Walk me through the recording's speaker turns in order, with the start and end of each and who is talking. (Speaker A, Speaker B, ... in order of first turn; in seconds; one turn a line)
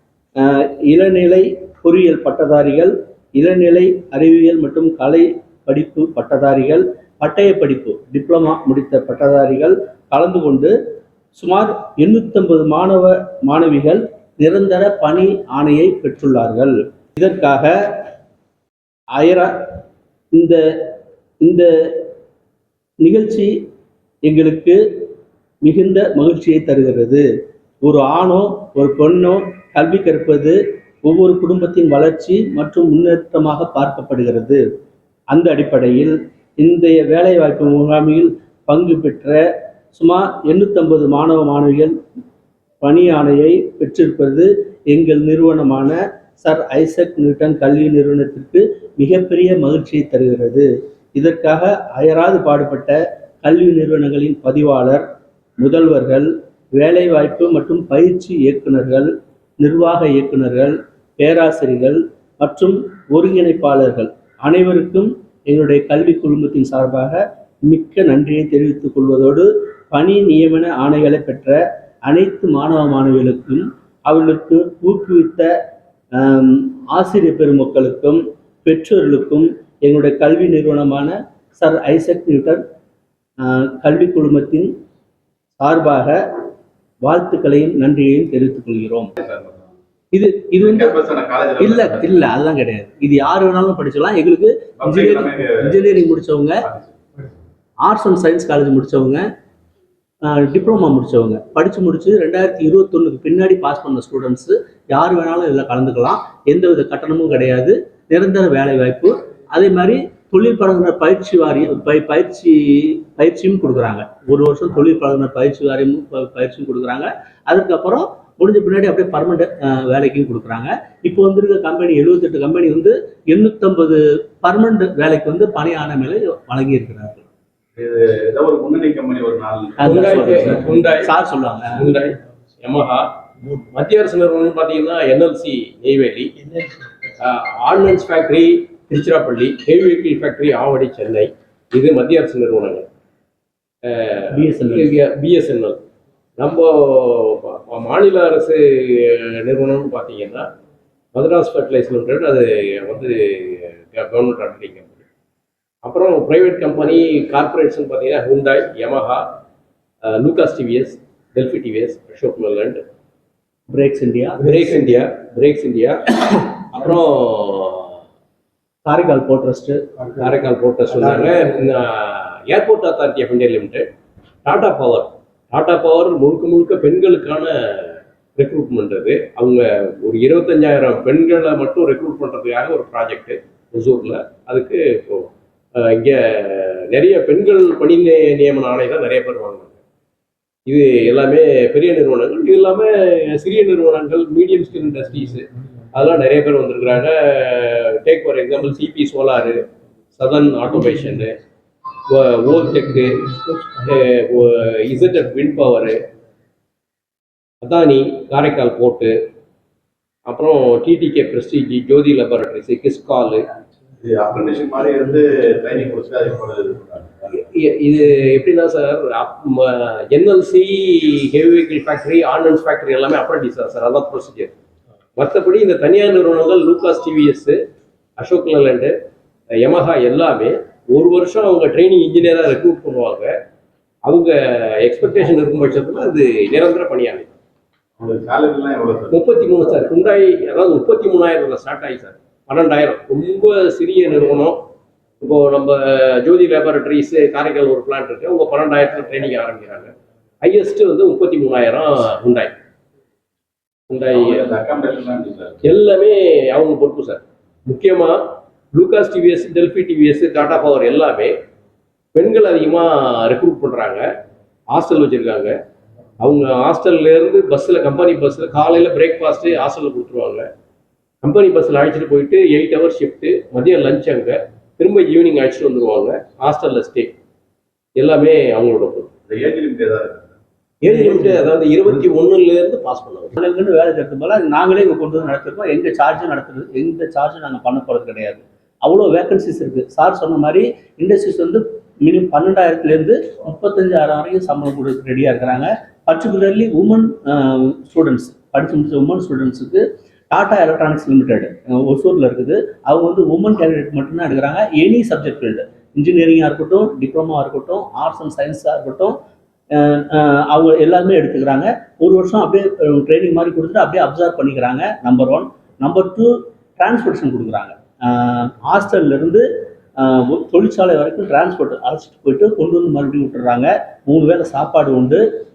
Speaker A: 0.4-10.7
Speaker A: 11.3-18.1
Speaker A: 19.2-19.7
Speaker A: 20.3-20.6
Speaker A: 21.4-22.1
Speaker A: 23.0-23.5
Speaker A: 24.2-24.8
Speaker A: 25.6-27.3
Speaker A: 27.8-34.6
Speaker A: 35.3-39.4
Speaker A: 39.9-41.9
Speaker A: 42.8-55.0
Speaker A: 55.6-75.5
Speaker A: 76.2-82.6
Speaker A: 83.4-84.7
Speaker A: 85.6-86.2
Speaker A: 87.0-89.1
Speaker B: 89.2-89.6
Speaker A: 90.1-91.0
Speaker B: 90.6-92.2
Speaker A: 91.6-96.6
Speaker B: 94.8-95.8
Speaker A: 97.8-99.3
Speaker A: 100.2-127.2
Speaker B: 127.8-130.5
Speaker A: 129.8-131.8
Speaker C: 129.8-131.1
Speaker C: 131.8-136.3
Speaker C: 137.2-142.9
Speaker C: 143.9-145.8
Speaker A: 144.3-144.9
Speaker C: 146.4-150.5
Speaker C: 151.1-155.0
Speaker C: 155.8-159.3
Speaker C: 160.1-162.8
Speaker A: 163.7-164.9
Speaker C: 164.4-168.0
Speaker A: 168.8-169.9
Speaker C: 170.2-173.9
Speaker C: 174.4-189.8
Speaker C: 190.7-199.6
Speaker C: 200.2-201.3
Speaker C: 202.1-206.0
Speaker C: 207.6-209.1
Speaker C: 210.3-213.5
Speaker B: 214.0-217.3
Speaker C: 217.3-224.5
Speaker C: 225.2-227.6
Speaker C: 228.2-228.9
Speaker C: 229.6-233.3
Speaker C: 234.1-237.3
Speaker B: 238.0-239.2
Speaker C: 239.1-244.6
Speaker C: 245.2-252.5
Speaker C: 253.9-254.6
Speaker B: 254.1-255.6
Speaker C: 255.6-258.2
Speaker C: 258.7-261.3
Speaker C: 262.1-264.1
Speaker C: 264.7-265.6
Speaker C: 266.2-270.5
Speaker C: 271.2-277.1
Speaker C: 278.0-279.1
Speaker B: 279.3-280.3
Speaker C: 280.8-283.4
Speaker A: 280.9-281.5
Speaker A: 283.4-309.2
Speaker A: 309.7-319.4
Speaker A: 320.0-325.2